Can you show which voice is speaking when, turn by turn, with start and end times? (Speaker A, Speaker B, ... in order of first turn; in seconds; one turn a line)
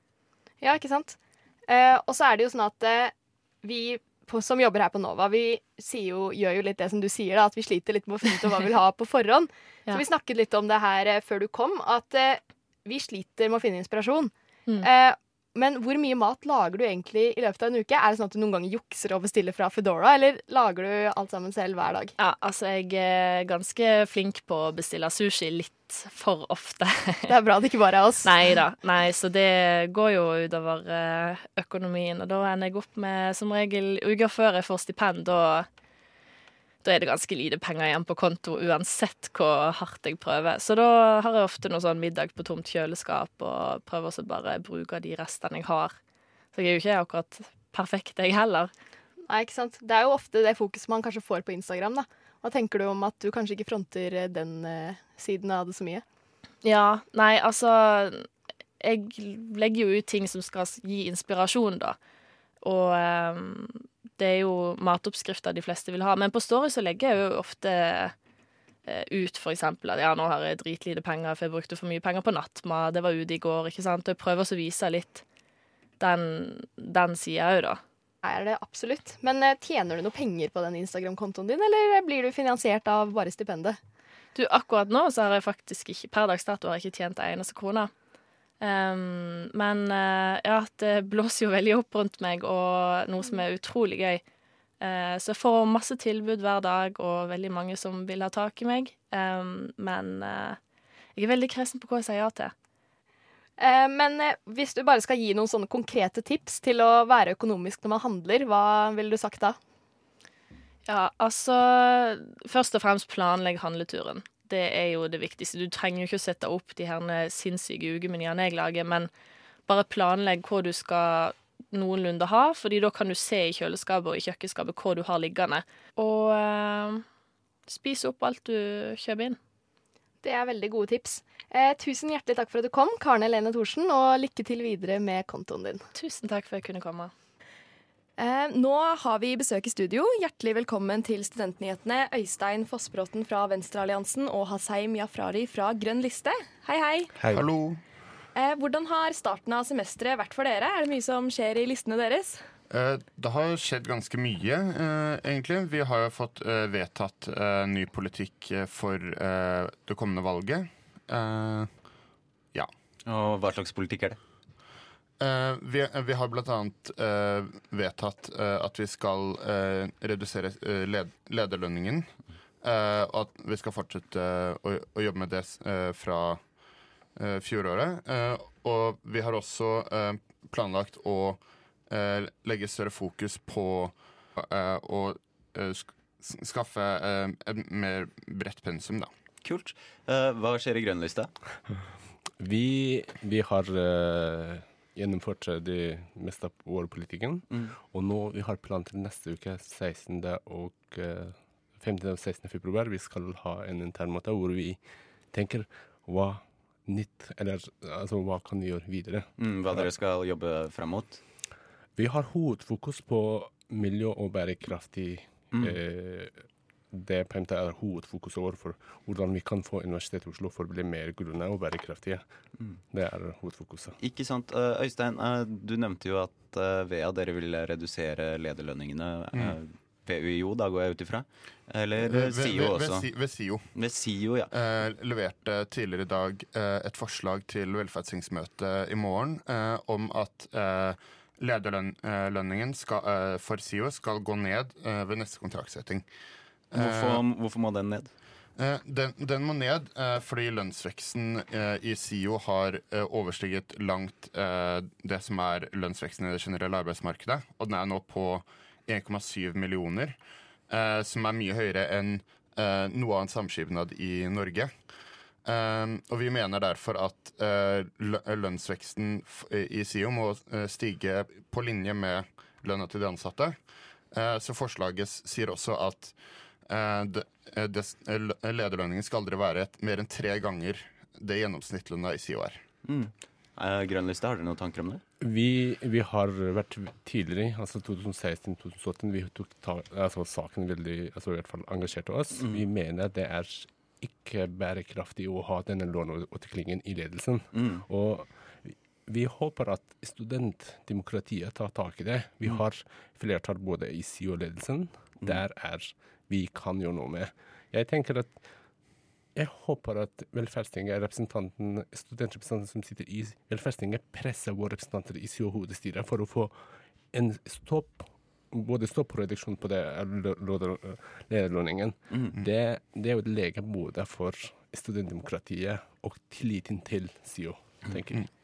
Speaker A: 0.6-22.1
Speaker B: 22.2-27.3
Speaker A: 27.3-28.6
Speaker B: 28.2-35.7
Speaker B: 36.8-45.9
Speaker B: 46.5-48.7
Speaker A: 49.3-56.0
Speaker B: 56.6-58.3
Speaker B: 58.8-62.0
Speaker B: 62.6-68.1
Speaker B: 68.9-75.2
Speaker B: 76.0-77.8
Speaker A: 78.2-83.8
Speaker B: 84.3-87.9
Speaker B: 88.6-94.2
Speaker B: 94.8-100.6
Speaker B: 101.2-102.5
Speaker A: 103.6-109.6
Speaker B: 110.9-119.1
Speaker B: 119.7-127.0
Speaker B: 127.7-129.4
Speaker A: 130.2-135.8
Speaker B: 135.9-137.1
Speaker A: 138.2-147.1
Speaker C: 147.2-147.4
Speaker D: 147.2-147.8
Speaker A: 148.3-152.4
Speaker D: 152.7-161.8
Speaker E: 163.1-164.2
Speaker D: 165.2-172.1
Speaker D: 172.6-176.4
Speaker D: 177.2-189.1
Speaker E: 189.4-191.3
Speaker C: 192.4-204.8
Speaker C: 205.3-209.9
Speaker E: 209.4-211.2
Speaker C: 212.0-222.2
Speaker C: 222.9-223.9
Speaker E: 224.0-233.1
Speaker D: 232.0-233.8
Speaker E: 233.7-234.5
Speaker D: 234.5-246.0
Speaker D: 246.7-247.2
Speaker E: 246.7-248.1
Speaker D: 248.6-260.2
Speaker D: 260.7-264.7
Speaker D: 265.4-273.6
Speaker D: 274.1-282.6
Speaker E: 282.9-285.0
Speaker C: 285.2-308.4
Speaker E: 292.4-292.6
Speaker E: 297.5-297.8
Speaker C: 309.4-316.6
Speaker C: 317.1-328.2